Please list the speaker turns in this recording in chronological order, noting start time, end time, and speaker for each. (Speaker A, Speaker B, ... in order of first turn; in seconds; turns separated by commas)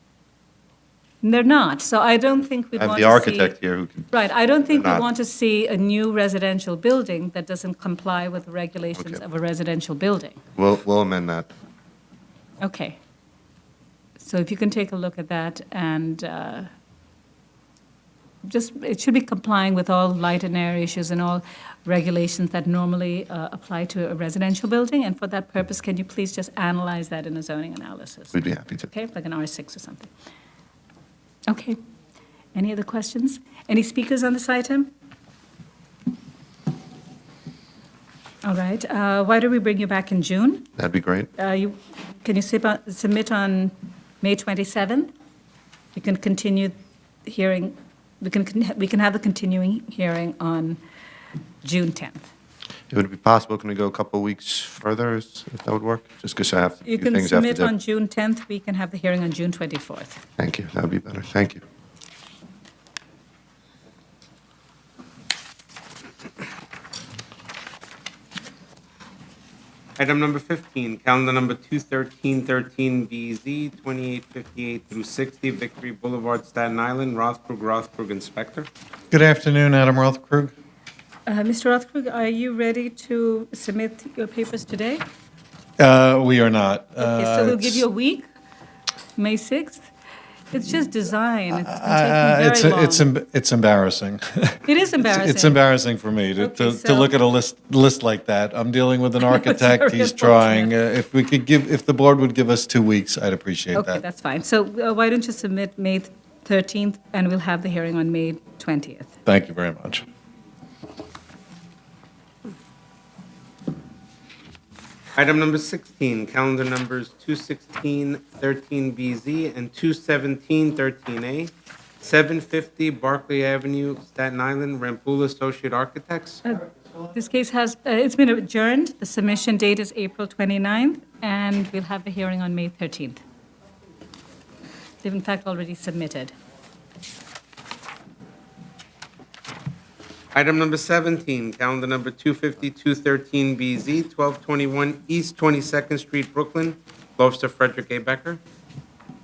Speaker A: 1.2-3.6, Speaker B: 2.8-4.1, Speaker A: 4.1-10.4, Speaker B: 4.7-5.1, Speaker B: 10.6-11.5, Speaker A: 12.6-13.0, Speaker A: 14.2-16.7, Speaker A: 18.4-28.4, Speaker B: 28.3-28.9, Speaker A: 28.9-30.1, Speaker A: 31.5-31.8, Speaker A: 32.5-34.9, Speaker A: 38.5-40.7, Speaker B: 40.8-41.3, Speaker A: 41.4-45.1, Speaker A: 46.0-46.8, Speaker A: 47.3-50.8, Speaker A: 51.6-52.3, Speaker B: 52.9-57.7, Speaker A: 56.9-60.2, Speaker B: 60.4-61.6, Speaker C: 70.0-78.7, Speaker D: 79.1-80.5, Speaker A: 81.3-85.0, Speaker D: 85.8-87.8, Speaker A: 87.0-88.3, Speaker A: 89.2-89.8, Speaker A: 90.5-93.1, Speaker D: 91.5-104.0, Speaker A: 94.7-95.6, Speaker A: 96.4-97.1, Speaker A: 99.2-100.7, Speaker A: 103.8-109.1, Speaker D: 109.3-110.0, Speaker C: 115.2-126.4, Speaker A: 126.5-133.2, Speaker A: 135.0-136.3, Speaker C: 140.3-148.4